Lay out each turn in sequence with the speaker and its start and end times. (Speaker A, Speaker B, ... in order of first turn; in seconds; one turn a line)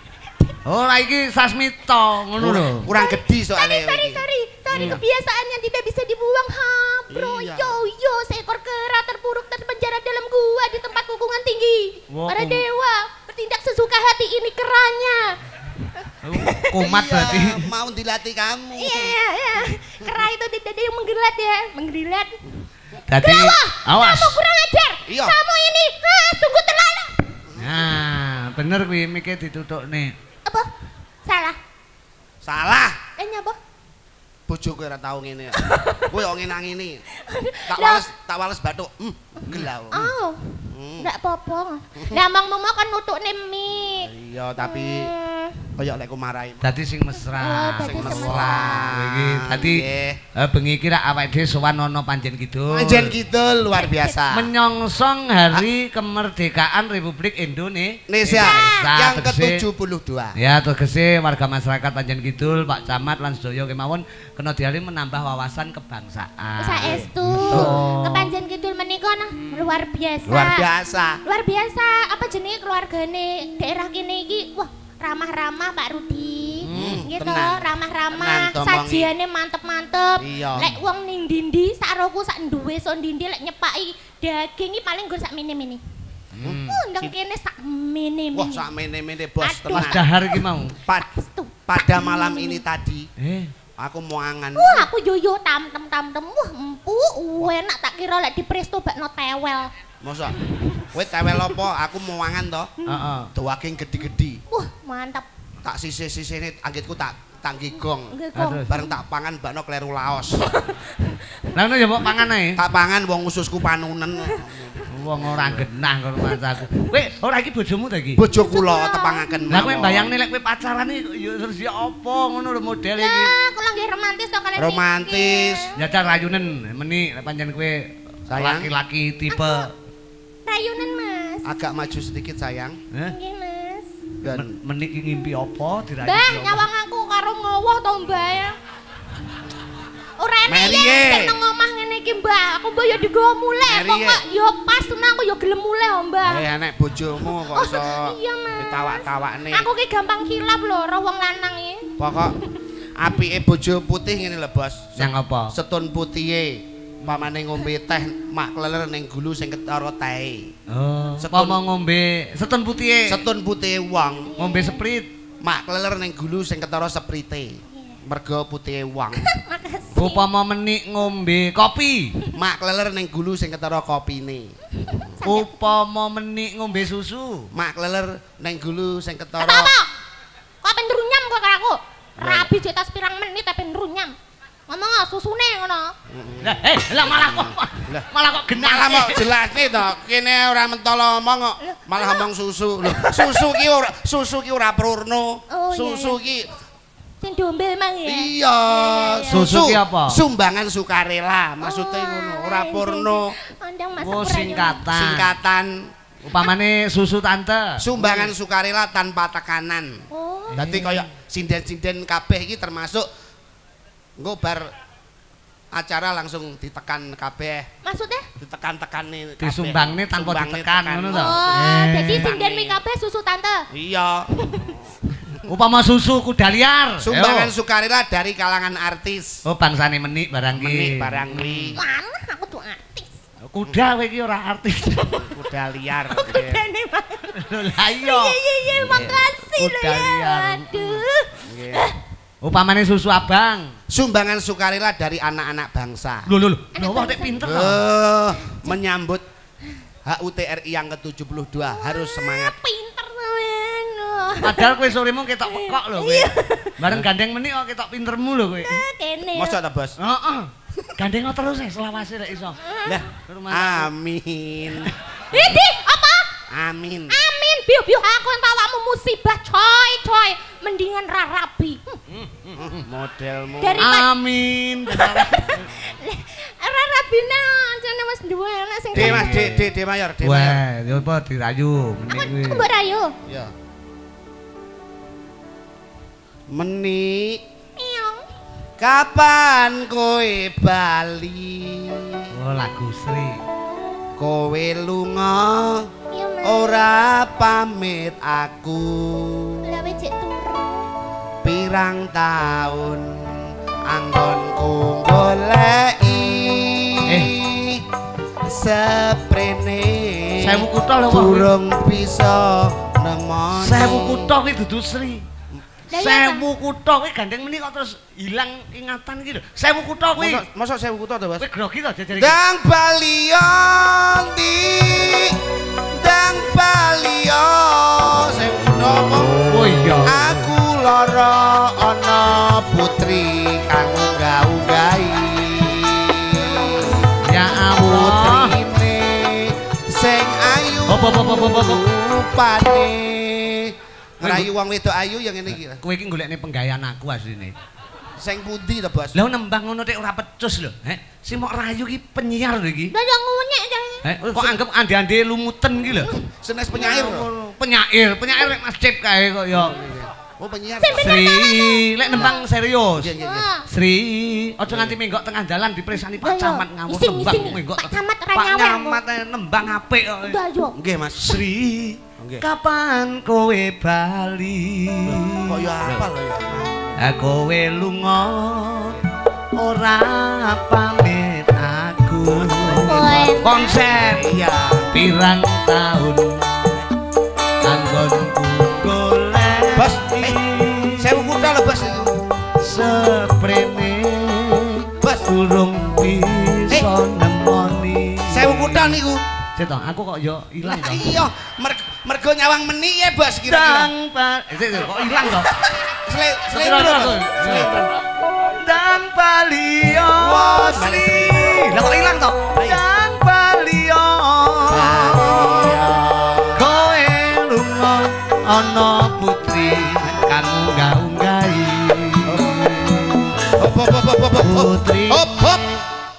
Speaker A: 0.7-2.9
Speaker B: 2.4-4.2
Speaker C: 2.9-16.7
Speaker A: 4.7-5.0
Speaker B: 7.1-7.8
Speaker A: 12.1-12.6
Speaker A: 16.2-17.7
Speaker B: 16.8-19.1
Speaker C: 18.8-22.4
Speaker A: 23.1-24.4
Speaker C: 23.2-27.1
Speaker B: 25.1-25.4
Speaker B: 27.5-27.9
Speaker A: 27.6-30.1
Speaker C: 31.3-31.6
Speaker B: 32.4-33.0
Speaker C: 33.2-33.6
Speaker B: 34.5-37.0
Speaker C: 35.6-36.1
Speaker C: 37.2-38.1
Speaker B: 37.7-40.1
Speaker C: 39.4-45.7
Speaker B: 40.7-41.1
Speaker B: 44.0-45.1
Speaker B: 45.8-46.7
Speaker A: 46.6-53.2
Speaker C: 47.4-48.9
Speaker B: 47.8-50.2
Speaker B: 52.7-54.5
Speaker C: 53.8-54.1
Speaker A: 54.3-59.6
Speaker B: 58.1-60.4
Speaker C: 58.4-58.9
Speaker A: 60.4-68.3
Speaker C: 66.6-70.7
Speaker B: 66.9-67.8
Speaker B: 70.3-71.2
Speaker C: 71.2-85.8
Speaker A: 76.6-77.0
Speaker B: 76.7-79.1
Speaker B: 80.2-80.8
Speaker A: 86.3-86.8
Speaker B: 86.4-87.1
Speaker C: 86.6-88.7
Speaker B: 88.3-90.0
Speaker C: 89.4-90.1
Speaker A: 89.7-90.8
Speaker C: 91.0-92.6
Speaker B: 91.7-93.1
Speaker A: 93.2-93.5
Speaker B: 93.8-94.9
Speaker C: 94.6-99.7
Speaker B: 100.0-100.4
Speaker C: 100.4-101.5
Speaker B: 100.9-102.7
Speaker A: 102.9-103.3
Speaker B: 103.3-104.4
Speaker C: 104.5-105.3
Speaker B: 105.6-108.2
Speaker C: 108.1-109.0
Speaker A: 108.4-108.7
Speaker B: 108.7-110.5
Speaker C: 110.4-112.2
Speaker A: 111.5-112.6
Speaker B: 112.6-115.7
Speaker A: 114.9-118.2
Speaker B: 118.2-120.1
Speaker C: 118.3-119.3
Speaker A: 119.5-123.3
Speaker C: 123.0-125.8
Speaker B: 124.6-125.7
Speaker A: 125.8-129.7
Speaker B: 128.3-128.7
Speaker C: 129.3-129.7
Speaker C: 130.5-131.5
Speaker B: 131.4-132.8
Speaker C: 133.1-134.0
Speaker B: 134.2-134.6
Speaker A: 134.3-136.6
Speaker C: 136.0-138.6
Speaker C: 140.2-146.4
Speaker B: 140.5-141.4
Speaker B: 143.7-144.2
Speaker B: 146.2-149.7
Speaker C: 147.2-151.9
Speaker B: 152.0-152.4
Speaker B: 153.0-160.5
Speaker A: 155.0-155.5
Speaker A: 160.7-163.2
Speaker B: 161.2-161.6
Speaker B: 163.1-164.3
Speaker C: 164.3-164.8
Speaker A: 164.4-165.1
Speaker B: 165.4-169.3
Speaker C: 167.7-168.0
Speaker C: 169.2-170.2
Speaker A: 169.9-172.1
Speaker B: 172.3-174.5
Speaker C: 174.8-175.7
Speaker A: 175.2-177.5
Speaker B: 177.5-179.7
Speaker C: 179.4-179.9
Speaker C: 180.6-184.1
Speaker B: 182.2-182.5
Speaker C: 184.7-185.9
Speaker B: 186.1-196.5
Speaker A: 186.4-189.2
Speaker C: 191.6-192.2
Speaker C: 192.9-193.6
Speaker C: 195.5-196.2
Speaker C: 197.2-199.5
Speaker B: 198.1-203.3
Speaker A: 199.3-200.2
Speaker C: 201.6-204.8
Speaker A: 204.0-205.3
Speaker B: 204.9-205.9
Speaker A: 206.2-208.3
Speaker B: 207.8-210.0
Speaker C: 210.1-210.6
Speaker A: 210.5-211.1
Speaker B: 210.6-213.1
Speaker B: 214.2-214.7
Speaker B: 215.7-217.7
Speaker C: 217.8-218.3
Speaker B: 218.4-222.8
Speaker A: 219.4-222.3
Speaker C: 221.1-223.7
Speaker B: 223.7-225.4
Speaker C: 224.3-224.7
Speaker A: 225.5-227.5
Speaker B: 227.0-229.4
Speaker A: 229.5-231.8
Speaker B: 230.6-231.8
Speaker C: 231.8-233.2
Speaker A: 233.5-235.3
Speaker B: 235.1-236.6
Speaker C: 236.1-237.4
Speaker A: 237.3-241.0
Speaker C: 238.0-242.0
Speaker B: 241.4-241.9
Speaker A: 242.4-243.7
Speaker B: 243.9-246.3
Speaker A: 246.3-247.8
Speaker C: 246.8-247.5
Speaker B: 247.4-249.2
Speaker C: 248.5-248.8
Speaker B: 250.1-252.6
Speaker C: 251.7-254.8
Speaker A: 254.4-258.8
Speaker C: 255.5-256.8
Speaker C: 258.6-259.6
Speaker B: 259.4-260.0
Speaker A: 260.0-262.6
Speaker C: 262.6-263.0
Speaker B: 262.9-264.9
Speaker A: 263.2-263.9
Speaker A: 264.9-265.5
Speaker C: 265.3-266.3
Speaker B: 266.5-267.2
Speaker C: 267.1-272.0
Speaker A: 272.1-272.8
Speaker B: 272.6-273.9
Speaker C: 273.6-274.1
Speaker A: 273.8-275.7
Speaker C: 274.9-279.5
Speaker A: 278.9-279.6
Speaker B: 278.9-280.6
Speaker A: 280.2-282.6
Speaker C: 282.1-283.1
Speaker B: 283.3-283.5
Speaker B: 286.5-287.4
Speaker C: 287.8-288.3
Speaker B: 288.8-292.3
Speaker A: 292.3-293.4
Speaker B: 294.2-295.9
Speaker C: 296.1-296.9
Speaker B: 296.4-299.6
Speaker C: 299.6-300.9
Speaker B: 301.4-307.9
Speaker A: 307.1-307.3
Speaker B: 308.4-314.3
Speaker A: 310.4-311.5
Speaker A: 313.6-315.3
Speaker C: 315.9-316.5
Speaker A: 315.9-320.4
Speaker B: 320.2-321.5
Speaker A: 321.4-322.4
Speaker B: 322.2-325.4
Speaker B: 325.9-337.1
Speaker A: 329.4-330.2
Speaker A: 337.2-338.6
Speaker B: 337.7-345.8
Speaker A: 340.9-341.9
Speaker A: 344.2-344.5
Speaker A: 345.5-347.6
Speaker B: 348.2-349.2
Speaker A: 349.1-352.9
Speaker C: 352.9-354.0
Speaker A: 354.0-356.1
Speaker B: 354.2-354.6
Speaker B: 356.3-357.3
Speaker A: 356.7-359.8
Speaker B: 359.5-361.2
Speaker C: 360.8-362.4
Speaker A: 360.9-363.1
Speaker B: 363.0-363.5
Speaker C: 363.2-363.7
Speaker A: 363.7-370.4
Speaker B: 364.7-365.0
Speaker C: 366.2-369.0
Speaker C: 370.3-370.8
Speaker B: 370.8-371.4
Speaker A: 371.2-376.1
Speaker B: 372.2-372.5
Speaker B: 375.1-377.0
Speaker A: 377.0-379.0
Speaker A: 379.6-384.2
Speaker B: 382.3-385.1
Speaker C: 382.8-383.5
Speaker A: 384.9-386.4
Speaker A: 387.6-391.3
Speaker B: 389.8-390.4
Speaker B: 391.0-392.3
Speaker A: 392.6-399.0
Speaker B: 395.0-395.3
Speaker B: 398.3-399.2
Speaker A: 399.6-401.1
Speaker B: 400.6-403.9
Speaker A: 403.4-405.6
Speaker B: 405.9-407.9
Speaker A: 406.5-407.9
Speaker A: 408.4-415.8
Speaker B: 410.1-411.8
Speaker B: 412.6-412.8
Speaker B: 414.7-416.7
Speaker A: 416.6-423.4
Speaker B: 420.0-420.4
Speaker B: 422.3-422.9
Speaker B: 423.6-425.8
Speaker A: 424.4-425.7